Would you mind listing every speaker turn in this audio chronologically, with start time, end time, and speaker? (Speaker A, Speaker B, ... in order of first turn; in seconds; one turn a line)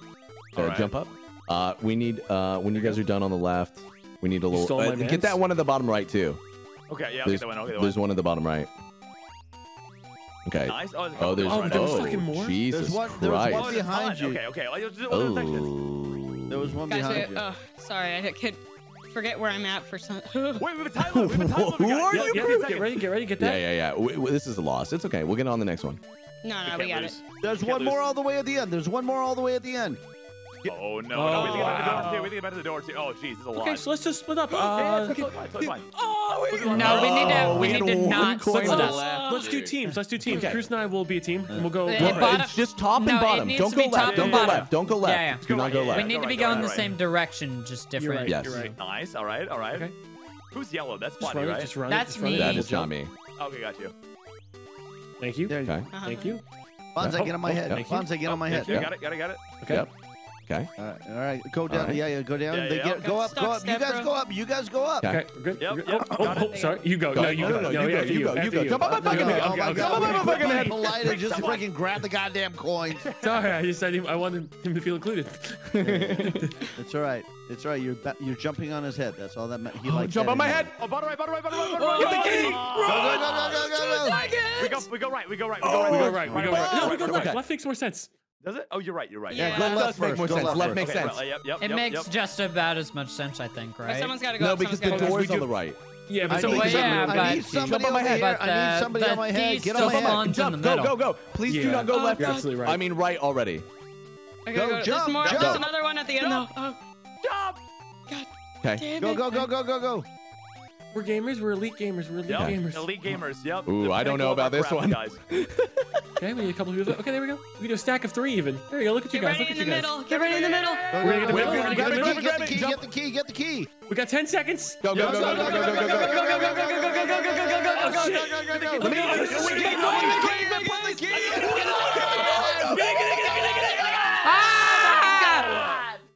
Speaker A: 0.5-0.9
Speaker B: 0.6-6.4
Speaker C: 4.5-5.4
Speaker A: 6.9-8.0
Speaker B: 7.2-8.7
Speaker B: 10.5-13.9
Speaker A: 10.7-12.2
Speaker C: 11.4-12.6
Speaker D: 12.7-14.4
Speaker A: 13.4-15.7
Speaker B: 15.1-16.8
Speaker D: 16.5-17.5
Speaker E: 16.9-20.7
Speaker A: 20.6-23.0
Speaker B: 21.0-22.6
Speaker C: 22.1-23.6
Speaker B: 23.4-26.0
Speaker E: 26.4-27.2
Speaker A: 26.6-28.1
Speaker D: 27.4-30.0
Speaker A: 30.7-33.9
Speaker C: 31.1-32.4
Speaker E: 31.3-32.1
Speaker C: 33.5-35.2
Speaker A: 34.5-35.9
Speaker E: 36.5-36.7
Speaker A: 36.5-37.9
Speaker B: 36.6-40.7
Speaker F: 36.6-39.0
Speaker C: 37.5-37.9
Speaker C: 38.6-42.4
Speaker E: 38.7-39.6
Speaker F: 41.9-48.6
Speaker B: 41.9-46.7
Speaker A: 44.0-44.7
Speaker A: 45.4-46.9
Speaker C: 48.0-48.8
Speaker B: 48.3-48.7
Speaker A: 48.5-49.9
Speaker A: 50.5-51.7
Speaker C: 51.2-52.9
Speaker F: 51.9-52.7
Speaker B: 52.3-53.1
Speaker A: 53.4-53.9
Speaker C: 55.2-56.4
Speaker D: 55.5-55.9
Speaker B: 55.6-55.9
Speaker E: 55.9-56.4
Speaker D: 57.0-58.9
Speaker B: 57.0-57.9
Speaker C: 57.0-58.9
Speaker A: 58.3-59.5
Speaker C: 59.6-59.9
Speaker B: 59.7-59.9
Speaker D: 60.8-65.1
Speaker B: 61.7-62.0
Speaker A: 62.5-63.0
Speaker E: 63.0-64.2
Speaker B: 65.0-65.3
Speaker C: 65.0-70.3
Speaker A: 65.6-67.0
Speaker E: 66.3-66.9
Speaker B: 67.1-70.8
Speaker D: 67.2-73.1
Speaker A: 69.0-71.7
Speaker A: 73.0-73.5
Speaker C: 73.2-75.8
Speaker B: 75.8-76.5
Speaker D: 75.8-80.7
Speaker B: 79.8-80.7
Speaker A: 80.8-83.4
Speaker E: 81.6-84.9
Speaker C: 82.0-83.5
Speaker B: 82.0-82.6
Speaker D: 82.2-84.3
Speaker A: 84.6-87.4
Speaker B: 85.6-87.4
Speaker C: 85.9-88.1
Speaker D: 85.9-87.3
Speaker A: 88.4-89.6
Speaker E: 89.3-90.6
Speaker D: 89.3-91.1
Speaker B: 89.5-91.3
Speaker A: 90.5-92.1
Speaker F: 91.6-94.2
Speaker E: 93.8-95.4
Speaker B: 94.4-96.9
Speaker C: 94.9-95.5
Speaker C: 96.1-97.7
Speaker D: 96.3-100.3
Speaker F: 96.3-101.0
Speaker B: 97.5-98.4
Speaker B: 99.8-103.7
Speaker C: 101.5-102.8
Speaker E: 101.9-102.6
Speaker E: 104.5-106.8
Speaker D: 104.5-105.7
Speaker B: 105.4-105.6
Speaker A: 107.2-107.6
Speaker E: 108.1-109.5
Speaker D: 109.0-110.1
Speaker C: 110.9-113.0
Speaker A: 112.3-115.2
Speaker B: 112.3-112.6
Speaker B: 113.7-116.2
Speaker C: 116.2-120.0
Speaker E: 119.1-121.2
Speaker A: 120.1-121.8
Speaker D: 120.9-123.7
Speaker C: 121.0-122.4
Speaker B: 121.3-122.9
Speaker C: 123.9-125.8
Speaker B: 124.8-126.5
Speaker D: 124.9-135.9
Speaker E: 125.0-128.4
Speaker C: 127.7-130.3
Speaker A: 128.6-129.5
Speaker B: 128.8-130.3
Speaker E: 129.1-132.9
Speaker A: 131.1-132.6
Speaker C: 131.2-134.4
Speaker B: 131.8-134.0
Speaker E: 133.8-135.8
Speaker F: 134.2-135.6
Speaker A: 135.3-135.8